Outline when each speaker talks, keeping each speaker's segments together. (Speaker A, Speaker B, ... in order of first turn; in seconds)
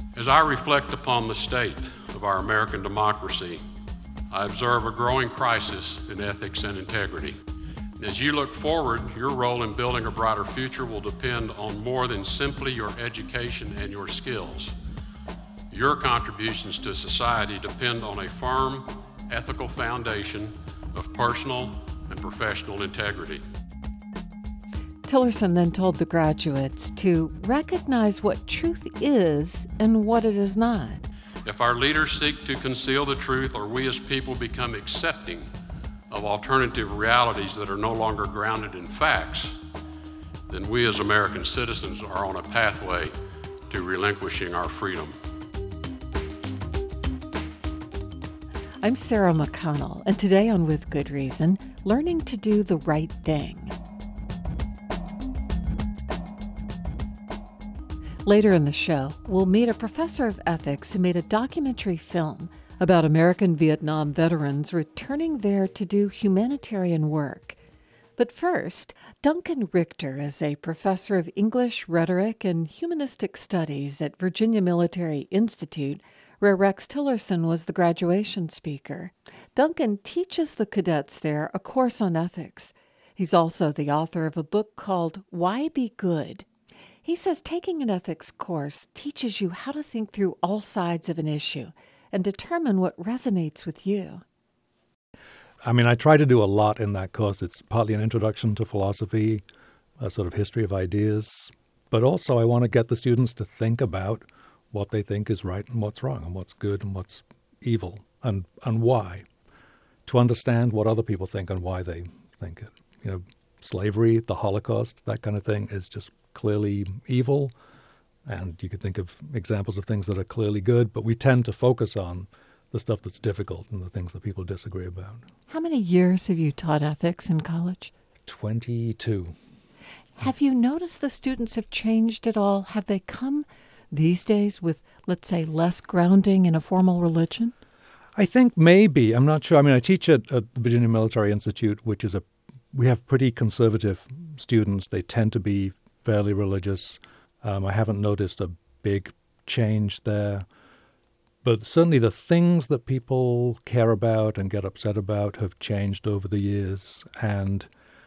Speaker A: 0.1-3.6, 4.3-7.4, 8.0-14.7, 15.7-23.4, 31.4-35.5, 36.1-39.5, 40.5-43.1, 43.7-45.1
Speaker B: 25.1-31.0, 48.8-53.8, 58.2-67.6, 68.2-86.5, 87.0-94.2, 125.5-127.9, 130.2-137.5
Speaker C: 95.6-99.4, 100.0-109.2, 110.0-117.5, 118.2-125.2, 128.2-129.3, 138.2-150.5, 151.4-157.7